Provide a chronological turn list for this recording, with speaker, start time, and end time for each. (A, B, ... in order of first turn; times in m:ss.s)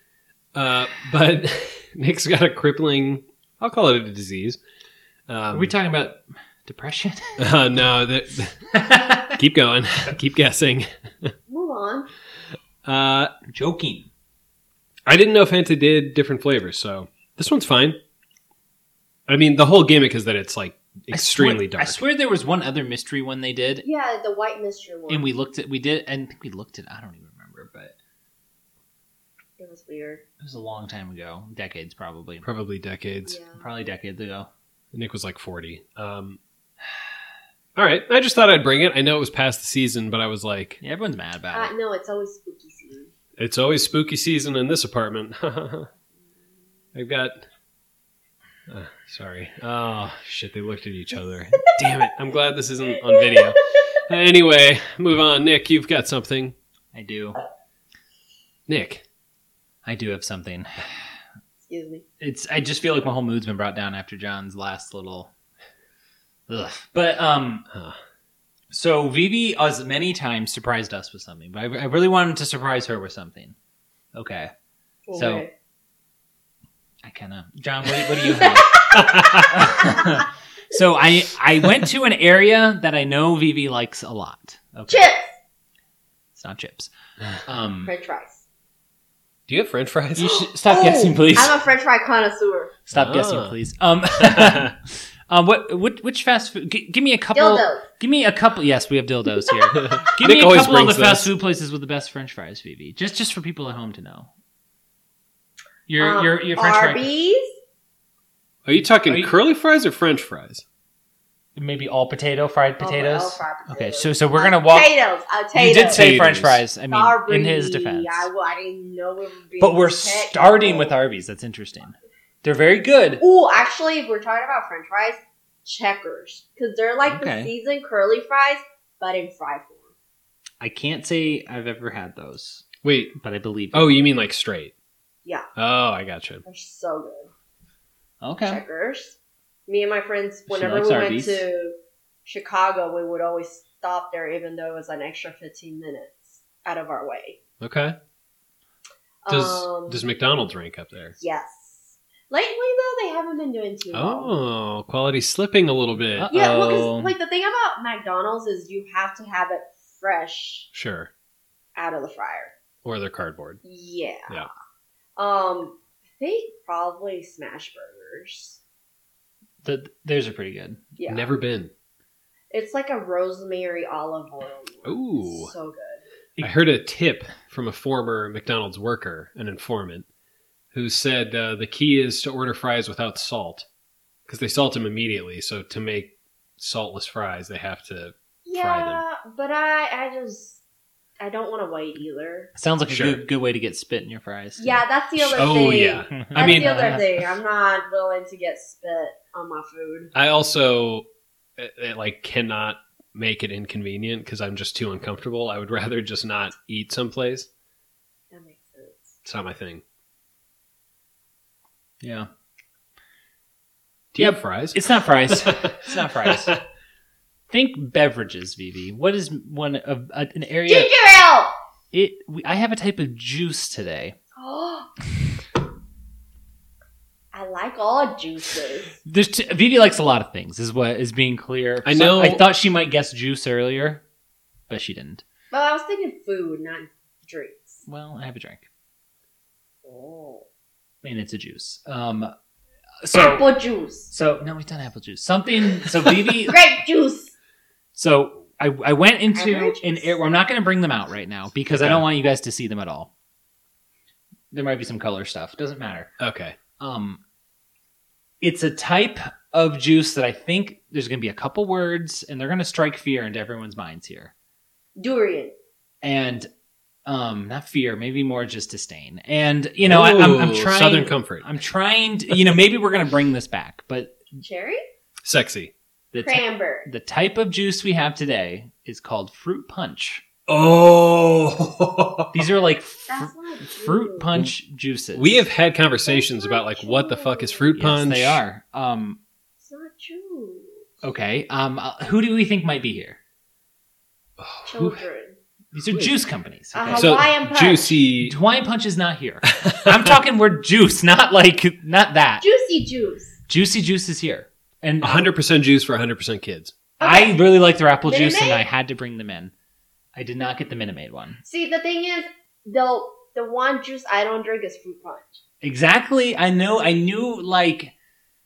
0:00.5-0:04.6 A
0:05.3-0:05.7 A
0:05.5-0:07.5 B
0:07.4-0:08.6 A
0:08.7-0:09.3 B
0:09.3-0:11.3 A
0:11.5-0:12.1 C
0:12.8-0:13.3 A
0:13.5-0:14.1 B
0:15.0-0:18.0 A
0:19.3-0:22.0 A
0:21.1-0:23.8 B
0:23.8-0:25.3 C
0:25.1-0:27.9 B
0:29.6-0:30.2 C
0:30.4-0:32.5 B
0:32.4-0:33.4 A
0:33.3-0:33.6 C
0:33.6-0:34.5 B
0:34.9-0:36.4 A
0:37.8-0:40.8 A
0:40.8-0:41.7 B
0:41.5-0:43.1 C
0:43.4-0:45.9 A
0:46.9-0:47.4 A
0:48.7-0:56.5 A
0:53.1-0:53.5 C
0:56.9-0:57.4 B
0:58.7-0:59.0 A
0:59.8-1:01.0 B
1:01.7-1:02.0 C
1:02.2-1:05.3 B
1:06.5-1:07.6 B
1:07.7-1:08.0 A
1:08.7-1:13.5 B
1:14.1-1:14.5 B
1:15.1-1:15.5 C
1:15.1-1:15.4 B
1:17.0-1:25.1 B
1:18.2-1:20.2 C
1:24.9-1:25.3 C
1:26.3-1:26.9 B
1:27.4-1:27.9 B
1:27.8-1:28.4 C
1:29.5-1:30.3 A
1:30.2-1:31.6 B
1:30.2-1:32.7 C
1:32.9-1:44.3 B
1:32.9-1:33.5 A
1:34.2-1:34.7 A
1:37.3-1:37.8 C
1:39.7-1:41.3 A
1:45.9-1:47.0 B
1:46.0-1:47.5 C
1:48.6-1:50.6 A
1:49.1-1:49.3 B
1:51.6-1:54.9 B
1:52.8-1:56.2 C
1:55.5-1:58.3 B
1:55.7-1:56.6 A
1:56.9-2:01.0 C
1:59.6-2:03.2 B
2:03.2-2:09.9 C
2:07.1-2:07.5 B
2:10.6-2:12.6 B
2:12.8-2:13.1 A
2:13.2-2:14.0 B
2:13.7-2:14.7 A
2:15.6-2:16.4 A
2:16.4-2:17.3 C
2:18.2-2:18.6 B
2:18.4-2:27.4 C
2:20.5-2:21.4 B
2:27.6-2:28.0 A
2:29.2-2:30.0 C
2:29.3-2:31.2 A
2:31.2-2:34.3 C
2:33.9-2:36.3 A
2:36.2-2:37.1 B
2:36.3-2:40.7 C
2:40.7-2:41.1 A
2:41.8-2:42.5 C
2:42.8-2:43.6 A
2:43.6-2:44.4 C
2:45.2-2:48.6 C
2:49.6-2:50.8 B
2:51.0-2:51.3 C
2:51.1-2:51.7 A
2:52.5-2:56.0 C
2:54.8-2:55.5 A
2:56.4-3:00.1 A
3:00.7-3:03.6 A
3:04.3-3:09.0 A
3:08.4-3:10.6 C
3:11.2-3:12.5 C
3:12.6-3:14.8 B
3:12.9-3:13.2 A
3:14.6-3:20.1 C
3:15.3-3:16.9 A
3:16.1-3:17.2 B
3:20.1-3:27.5 A
3:28.3-3:29.2 C
3:29.2-3:29.8 A
3:32.0-3:32.3 B
3:34.1-3:36.6 A
3:34.2-3:36.5 B
3:37.5-3:40.9 B
3:40.7-3:41.5 C
3:41.9-3:44.2 B
3:44.4-3:44.9 C
3:47.3-3:49.0 C
3:49.0-3:54.0 B
3:51.8-3:52.4 A
3:54.7-3:55.2 B
3:55.5-3:57.8 C
3:57.8-3:58.6 B
3:59.8-4:00.4 C
4:01.0-4:02.3 B
4:03.0-4:03.5 B
4:03.1-4:04.1 C
4:04.1-4:06.6 B
4:06.4-4:07.3 C
4:07.9-4:13.1 B
4:09.3-4:10.2 C
4:11.8-4:12.0 A
4:14.5-4:16.1 B
4:16.2-4:16.6 A
4:16.8-4:17.2 B
4:18.4-4:24.3 B
4:25.0-4:25.5 C
4:26.0-4:26.5 B
4:27.0-4:34.2 B
4:29.8-4:31.4 A
4:34.4-4:34.8 C
4:35.2-4:35.7 A
4:36.1-4:40.2 B
4:36.2-4:36.9 C
4:40.5-4:42.4 A
4:42.3-4:45.4 B
4:43.1-4:44.3 C
4:45.1-4:48.4 A
4:46.0-4:47.7 C
4:47.8-4:49.2 B
4:49.6-4:50.8 C
4:51.0-4:53.2 B
4:54.4-4:55.0 A
4:54.7-4:55.4 C
4:55.7-4:57.3 B
4:56.7-4:58.0 C
4:56.9-4:58.4 A
4:58.2-5:02.4 B
4:59.6-5:00.1 A
5:02.4-5:03.4 C
5:03.5-5:05.2 B
5:05.0-5:06.7 A
5:07.0-5:09.5 B
5:07.0-5:07.4 C
5:08.0-5:08.6 C
5:10.1-5:11.4 B
5:11.4-5:15.4 C
5:15.6-5:17.9 B